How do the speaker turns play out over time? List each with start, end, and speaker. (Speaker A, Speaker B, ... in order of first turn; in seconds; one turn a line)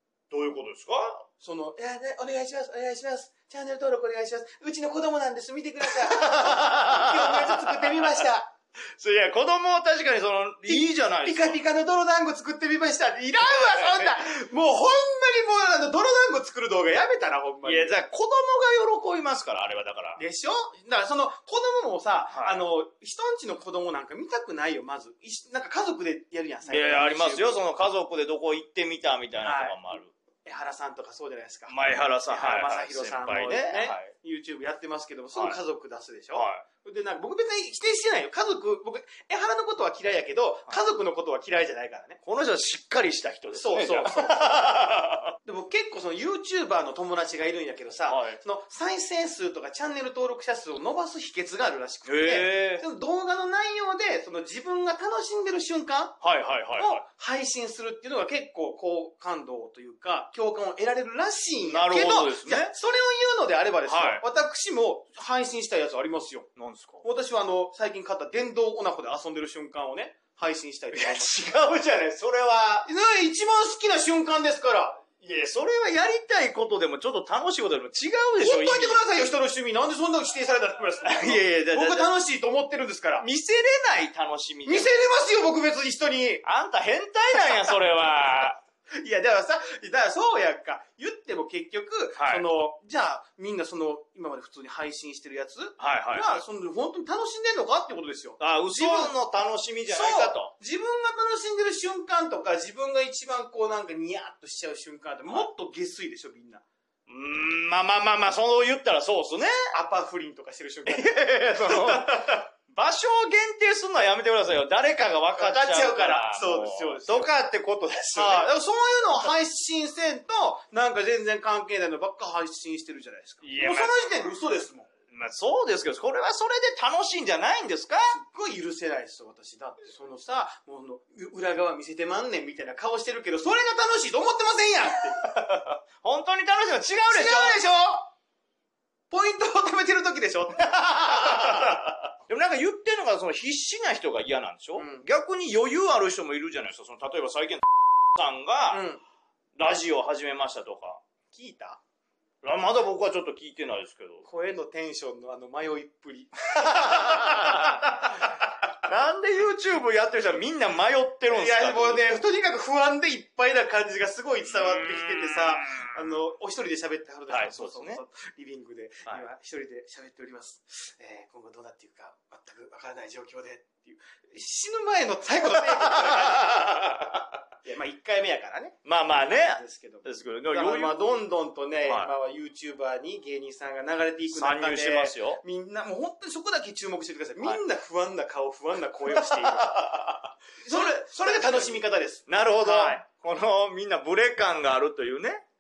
Speaker A: 0.3-1.2
Speaker B: 1.4-8.5
Speaker A: 5.8-8.2
Speaker A: 8.9-11.6
Speaker B: 10.6-17.9
Speaker A: 13.8-14.1
Speaker A: 17.6-20.2
Speaker B: 20.2-27.6
Speaker A: 22.3-22.6
Speaker A: 26.7-30.1
Speaker B: 29.4-29.8
Speaker B: 30.4-42.2
Speaker A: 31.7-34.1
Speaker A: 36.3-36.6
Speaker A: 42.2-45.3
Speaker B: 43.5-44.7
Speaker B: 45.4-56.2
Speaker A: 48.1-48.4
Speaker A: 52.0-52.8
Speaker A: 56.2-57.0
Speaker B: 56.8-66.5
Speaker A: 61.7-62.7
Speaker A: 63.9-64.2
Speaker A: 66.6-67.1
Speaker B: 67.0-71.3
Speaker A: 70.9-72.9
Speaker B: 72.8-75.0
Speaker A: 75.2-79.0
Speaker B: 78.4-83.2
Speaker A: 81.0-82.1
Speaker A: 83.2-84.9
Speaker B: 84.7-86.4
Speaker A: 86.4-88.6
Speaker B: 87.4-87.8
Speaker B: 89.0-99.1
Speaker A: 92.2-92.4
Speaker A: 95.8-96.4
Speaker A: 98.4-100.5
Speaker B: 99.9-106.6
Speaker A: 107.1-109.7
Speaker B: 109.7-112.5
Speaker A: 110.9-118.5
Speaker B: 115.3-117.3
Speaker B: 118.1-124.9
Speaker A: 123.4-124.1
Speaker A: 125.1-128.1
Speaker B: 128.1-135.3
Speaker A: 135.2-137.6
Speaker B: 137.1-138.1
Speaker B: 139.1-142.0
Speaker A: 141.1-147.6
Speaker B: 144.8-145.0
Speaker A: 148.1-148.8
Speaker B: 148.7-149.0
Speaker A: 149.6-151.0
Speaker B: 151.3-151.8
Speaker A: 152.4-154.2
Speaker B: 154.2-158.4
Speaker A: 156.5-162.2
Speaker B: 161.3-190.1
Speaker A: 164.5-166.2
Speaker A: 167.3-168.0
Speaker A: 175.9-176.5
Speaker A: 178.8-181.0
Speaker A: 181.8-182.1
Speaker A: 184.3-185.4
Speaker A: 189.1-195.4
Speaker B: 190.6-193.0